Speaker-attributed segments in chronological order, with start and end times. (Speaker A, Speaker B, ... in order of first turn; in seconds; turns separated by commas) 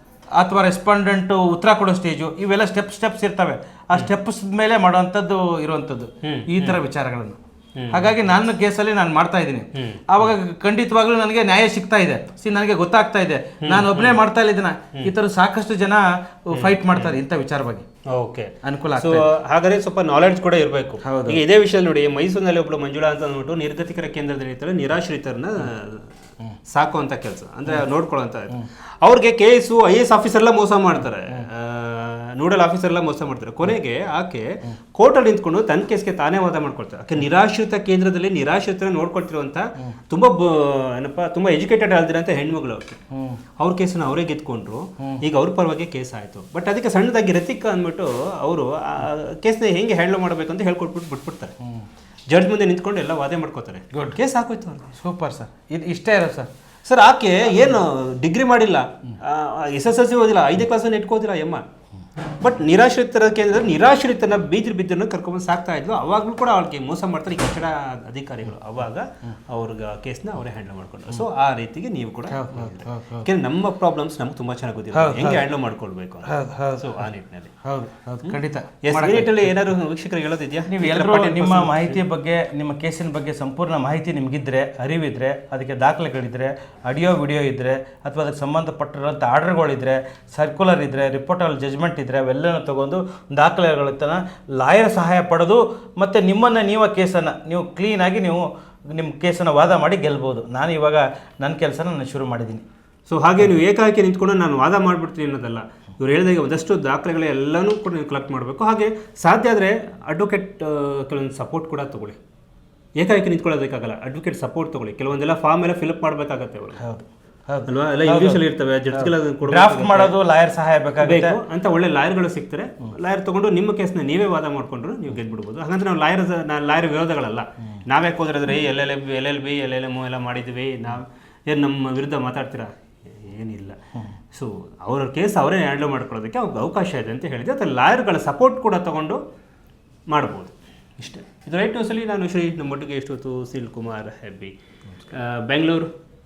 Speaker A: 0.4-7.4, Speaker B: 6.2-6.8, Speaker B: 7.8-8.1, Speaker A: 7.9-17.8, Speaker B: 9.7-10.3, Speaker B: 13.6-14.2, Speaker B: 16.5-17.1, Speaker B: 18.1-26.1, Speaker A: 18.6-19.3, Speaker A: 21.0-21.4, Speaker B: 26.7-43.0, Speaker A: 43.1-43.4, Speaker B: 43.6-51.5, Speaker B: 52.3-55.0, Speaker A: 53.9-54.2, Speaker A: 55.0-56.5, Speaker B: 56.8-61.6, Speaker B: 62.4-77.5, Speaker A: 72.3-73.2, Speaker A: 74.9-75.4, Speaker A: 76.2-77.0, Speaker A: 77.6-79.6, Speaker B: 78.2-82.0, Speaker A: 80.7-102.6, Speaker B: 103.1-112.2, Speaker B: 113.0-116.8, Speaker A: 116.8-121.4, Speaker B: 117.7-120.2, Speaker B: 121.0-133.8, Speaker B: 134.3-139.2, Speaker B: 140.1-144.5, Speaker B: 145.1-145.9